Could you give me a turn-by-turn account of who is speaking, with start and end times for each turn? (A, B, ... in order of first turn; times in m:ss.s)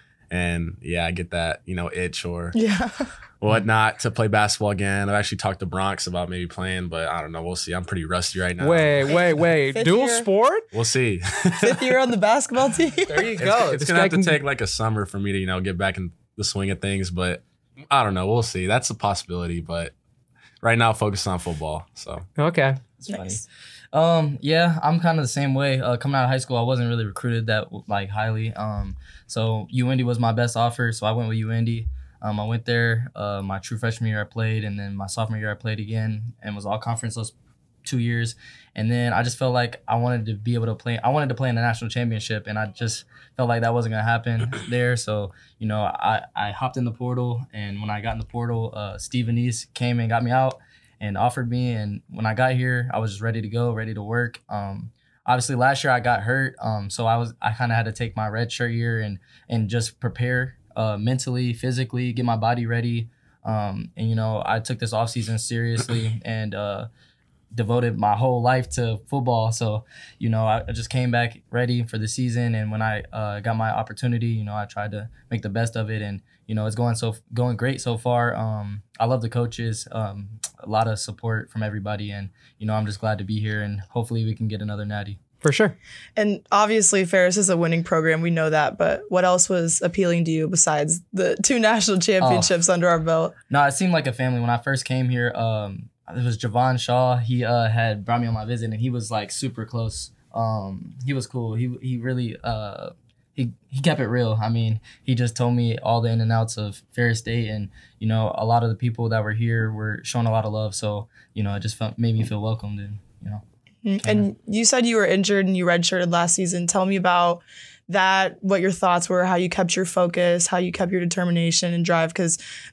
0:00.3-0:02.6 A
0:02.6-0:03.1 B
0:03.4-0:09.1 A
0:08.6-0:10.6 C
0:09.1-0:10.3 B
0:10.7-0:12.0 A
0:11.6-0:13.3 B
0:13.1-0:14.4 C
0:13.4-0:19.9 A
0:20.6-0:22.3 A
0:22.4-0:22.8 C
0:23.0-1:06.9 D
0:23.1-0:23.4 B
1:07.5-1:25.2 D
1:25.4-1:25.8 C
1:26.2-1:33.4 B
1:32.2-1:32.5 D
1:33.5-1:53.4 D
1:53.8-2:02.4 B
1:54.0-1:54.3 D